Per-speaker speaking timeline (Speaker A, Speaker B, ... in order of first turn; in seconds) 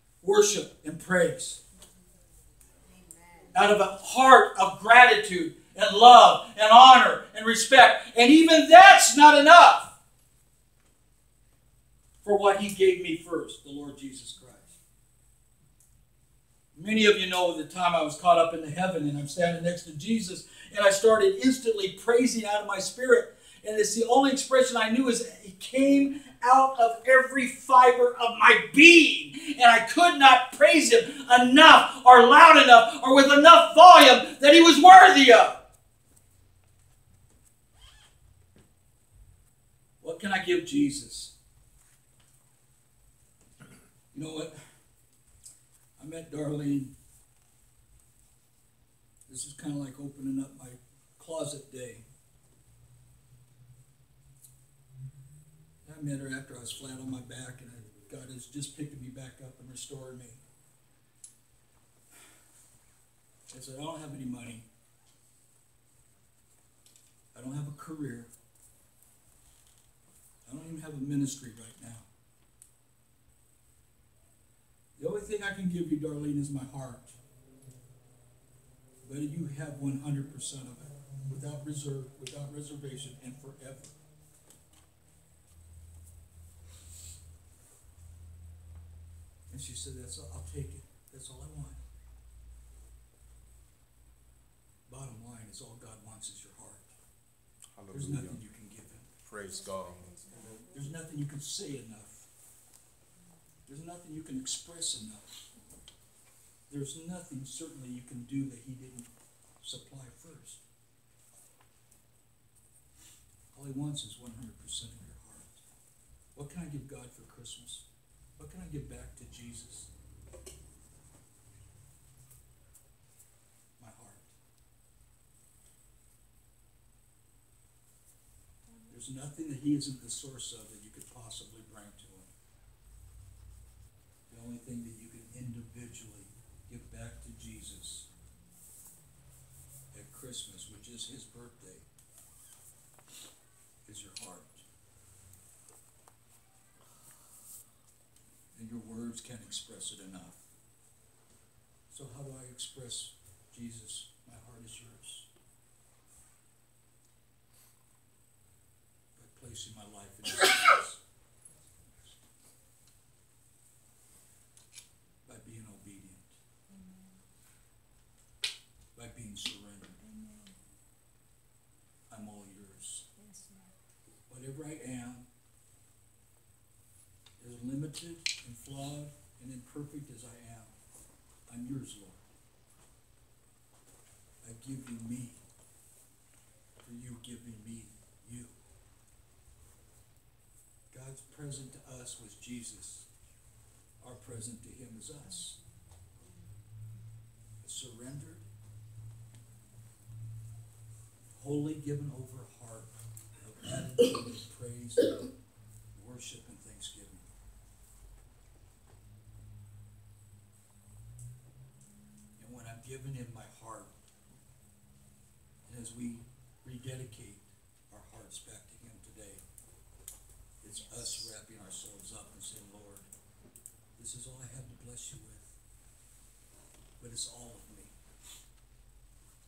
Speaker A: 0.2-1.6, 3.5-9.9, 12.2-14.7, 16.8-35.6, 40.0-41.3, 44.1-44.5, 46.0-46.9, 49.3-52.0, 55.8-60.4, 63.5-64.6, 67.3-68.3, 70.5-72.1, 75.0-77.2, 79.0-83.9, 89.5-91.8, 94.9-96.9, 97.9-99.1, 100.7-102.3, 103.7-105.3, 106.7-109.1, 109.6-110.6, 113.5-115.6, 116.3-117.8, 118.4-119.9, 123.8-124.3, 128.9-132.3, 134.3-138.1, 139.9-141.8, 143.8-144.6, 148.5-150.4, 151.9-155.3, 159.1-161.0, 165.2-166.3, 168.9-170.0, 172.1-173.0, 174.3-175.3, 177.4-180.7, 181.5-182.2, 184.4-185.4, 186.8-188.6, 190.9-193.1, 194.0-195.6, 197.6-198.4, 201.3-205.2, 205.9-207.2, 212.4-213.9, 215.7-219.4, 220.6-223.1, 224.0-225.5, 227.0-227.9
Speaker B: 3.0-3.5, 100.0-100.6, 166.7-167.2, 170.0-170.6, 173.2-173.7
Speaker C: 97.7-98.4, 99.2-100.6